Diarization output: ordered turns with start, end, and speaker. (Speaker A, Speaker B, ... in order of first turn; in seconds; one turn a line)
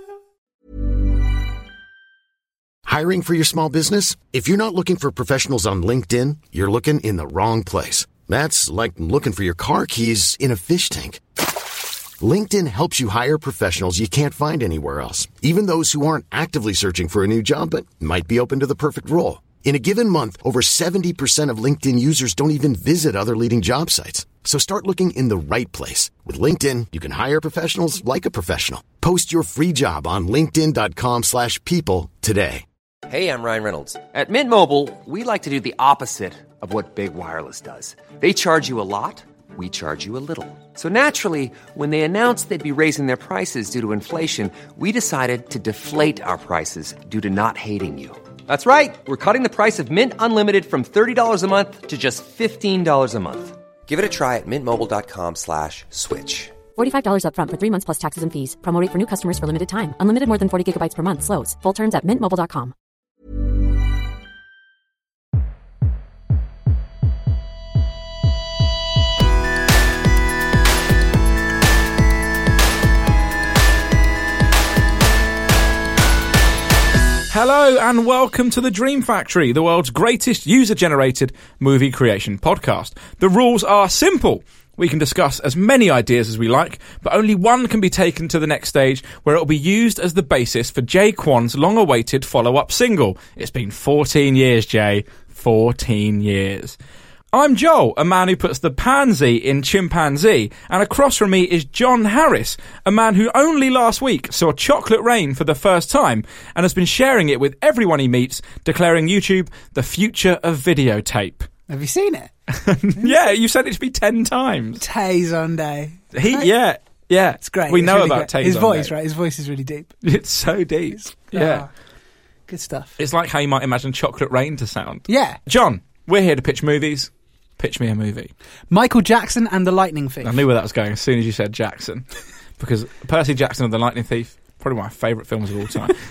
Speaker A: 2.9-11.2
Speaker A: 12.2-32.6
Speaker B: 33.1-56.6
Speaker C: 56.8-62.7
Speaker D: 77.3-96.8
Speaker D: 97.3-111.5
Speaker E: 111.7-112.3
Speaker D: 112.5-114.8
Speaker E: 114.8-116.5
Speaker D: 116.1-118.9
Speaker E: 117.4-119.9
Speaker D: 120.0-121.7
Speaker E: 120.9-121.7
Speaker E: 122.5-123.0
Speaker D: 123.0-128.3
Speaker E: 125.1-125.4
Speaker E: 128.7-130.4
Speaker D: 130.2-132.1
Speaker D: 132.6-136.0